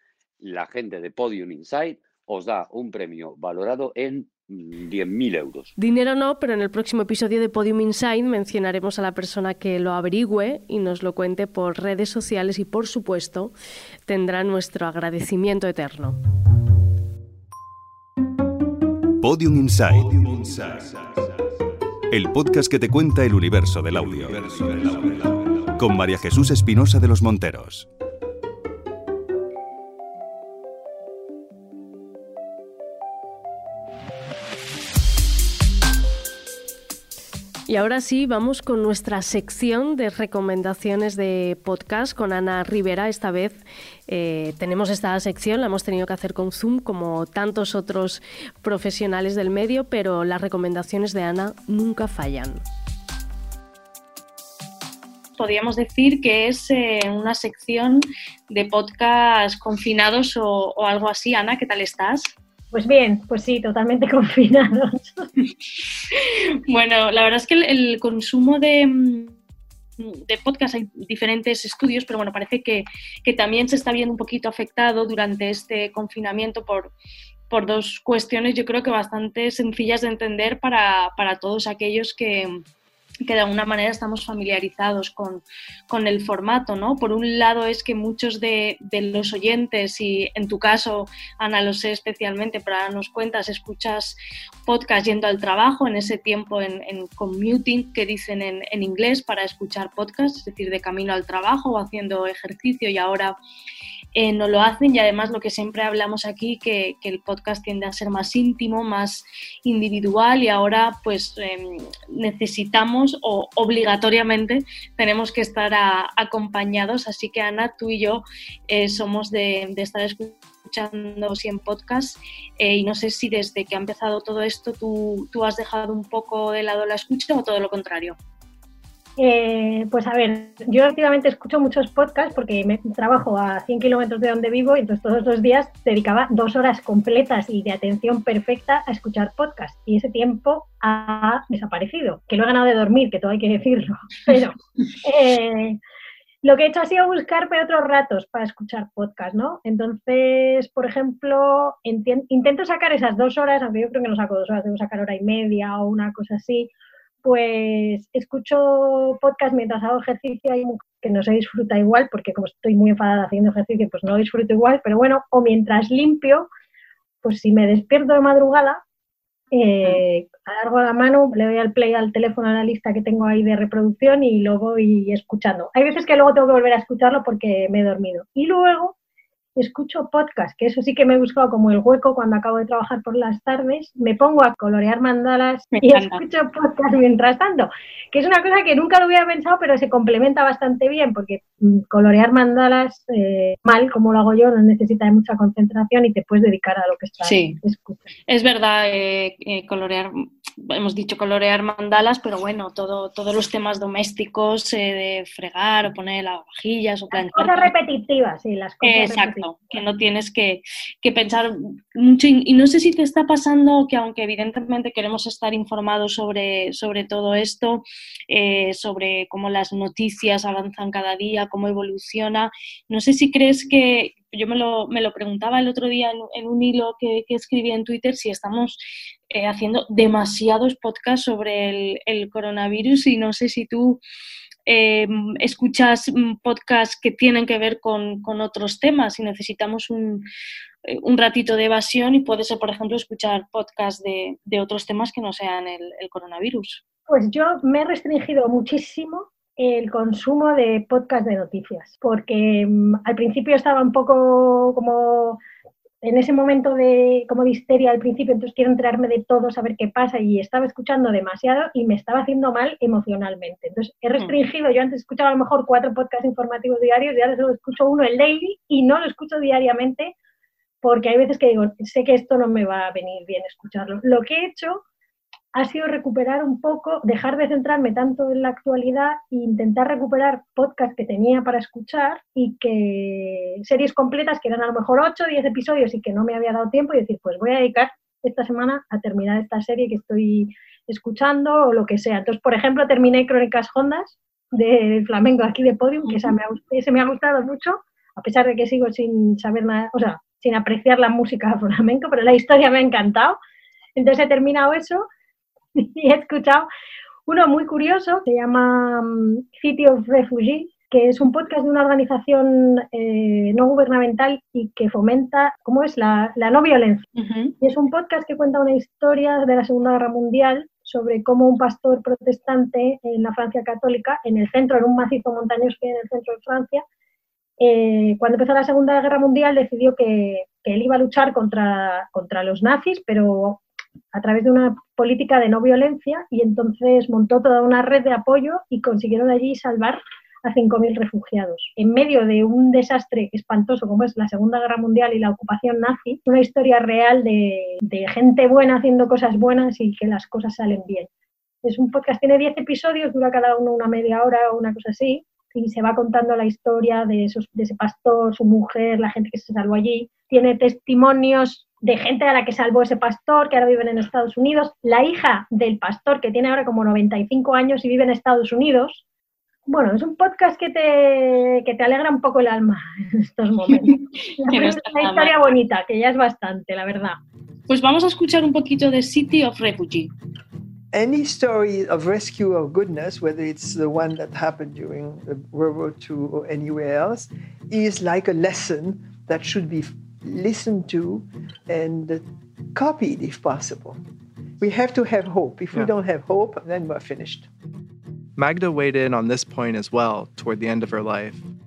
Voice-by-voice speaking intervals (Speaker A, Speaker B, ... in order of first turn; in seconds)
Speaker A: 0.4-5.7
Speaker B: 5.8-13.5, 14.1-16.2, 37.7-52.6
Speaker C: 19.2-21.2, 22.1-27.9
Speaker D: 55.4-62.3, 66.1-69.4, 70.0-76.9, 77.5-82.6, 83.2-103.4, 104.1-128.2, 185.7-186.2, 197.2-197.6, 198.3-207.7, 208.8-234.0, 234.7-240.2, 240.8-246.8, 296.1-296.3, 317.2-317.5, 373.7-375.5, 377.7-380.1
Speaker E: 62.7-65.3, 129.2-145.8, 146.4-156.7, 157.2-166.5, 167.2-168.8, 169.5-178.9, 179.6-198.1, 207.1-209.7, 247.1-255.4, 256.0-270.1, 270.8-274.8, 275.5-303.4, 303.9-305.1, 305.8-306.7, 307.3-317.0, 317.6-326.8, 327.6-333.6, 334.1-351.1, 351.6-369.0, 369.7-377.2
Speaker F: 380.9-394.0, 394.6-397.5
Speaker G: 398.4-401.5